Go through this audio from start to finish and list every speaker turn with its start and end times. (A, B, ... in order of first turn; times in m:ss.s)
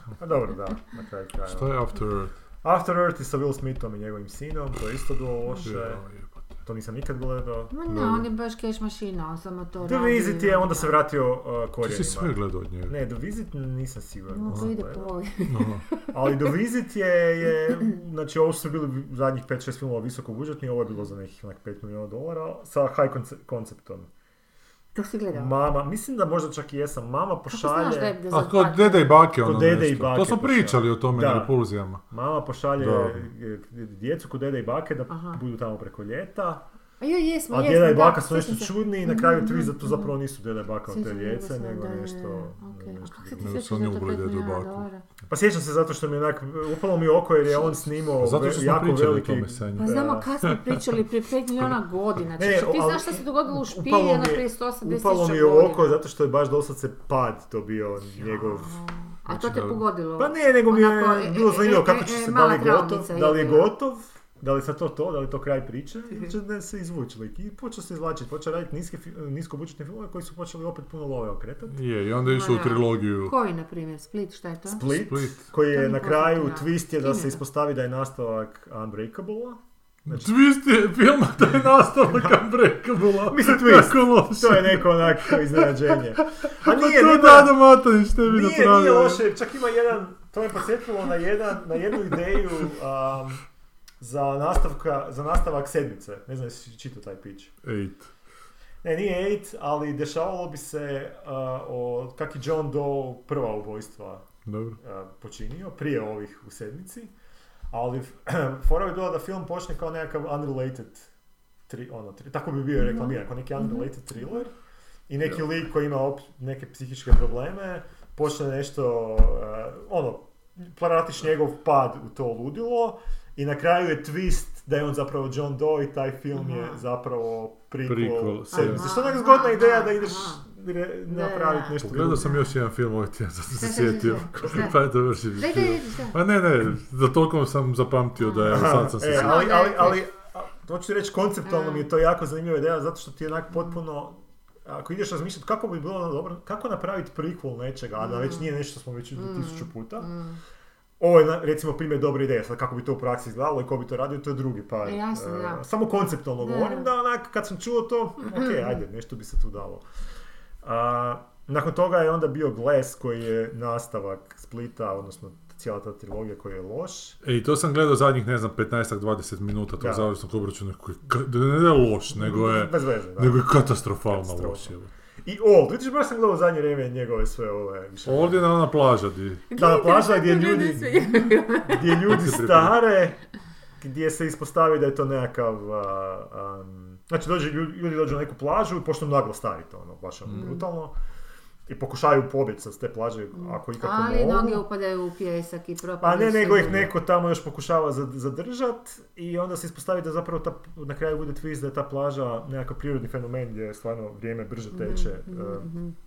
0:00.2-0:01.8 A
0:01.4-0:02.3 B
0:02.6-0:06.0 A
0:05.6-0:06.5 B
0:06.6-0:07.7 A
0:07.7-0:11.0 C
0:07.9-0:08.3 B
0:09.8-0:12.3 A
0:11.8-0:12.9 B
0:12.9-0:15.1 A
0:14.3-0:16.4 C
0:15.5-0:15.8 B
0:16.1-0:24.1 A
0:24.9-0:25.5 C
0:25.3-0:28.2 A
0:27.5-0:29.2 C
0:28.3-0:32.0 B
0:29.4-0:31.6 A
0:32.1-0:36.6 A
0:32.8-0:33.3 B
0:35.1-0:35.4 C
0:37.0-0:40.1 C
0:37.5-0:43.6 A
0:40.9-0:45.0 C
0:43.4-0:44.9 B
0:45.3-0:50.3 A
0:48.2-0:50.8 B
0:49.8-0:56.0 C
0:52.4-0:58.8 A
0:58.2-1:03.7 C
0:59.3-0:59.8 B
1:00.2-1:11.8 A
1:11.7-1:13.3 B
1:12.2-1:14.9 C
1:14.6-1:20.3 A
1:14.9-1:15.4 B
1:15.6-1:17.4 C
1:20.1-1:29.2 B
1:22.1-1:22.4 A
1:23.2-1:27.6 A
1:28.2-1:33.4 A
1:34.0-1:37.5 A
1:37.6-1:38.1 B
1:38.8-1:44.2 A
1:44.4-1:44.8 B
1:44.8-1:47.1 A
1:47.7-1:51.1 A
1:51.7-1:54.5 A
1:52.8-1:53.9 C
1:55.1-2:12.4 A
2:06.3-2:06.8 C
2:07.8-2:08.9 B
2:08.5-2:10.4 C
2:11.1-2:12.5 C
2:11.8-2:19.5 B
2:13.5-2:14.8 C
2:15.3-2:16.2 C
2:18.2-2:20.0 C
2:18.5-2:30.1 A
2:21.4-2:21.9 C
2:28.0-2:28.5 C
2:29.1-2:30.4 C
2:31.0-2:39.8 A
2:34.8-2:35.6 C
2:36.4-2:36.9 C
2:38.2-2:38.7 C
2:40.6-2:47.2 A
2:47.2-2:54.9 B
2:49.8-2:50.1 A
2:52.1-2:54.7 A
2:55.2-2:58.4 A
2:58.0-2:59.4 B
2:59.5-3:02.1 C
2:59.6-3:01.0 A
3:01.6-3:03.2 A
3:01.9-3:02.8 B
3:03.8-3:10.9 A
3:10.3-3:10.6 C
3:11.7-3:14.6 A
3:13.3-3:16.9 C
3:16.0-3:25.7 A
3:24.7-3:25.9 C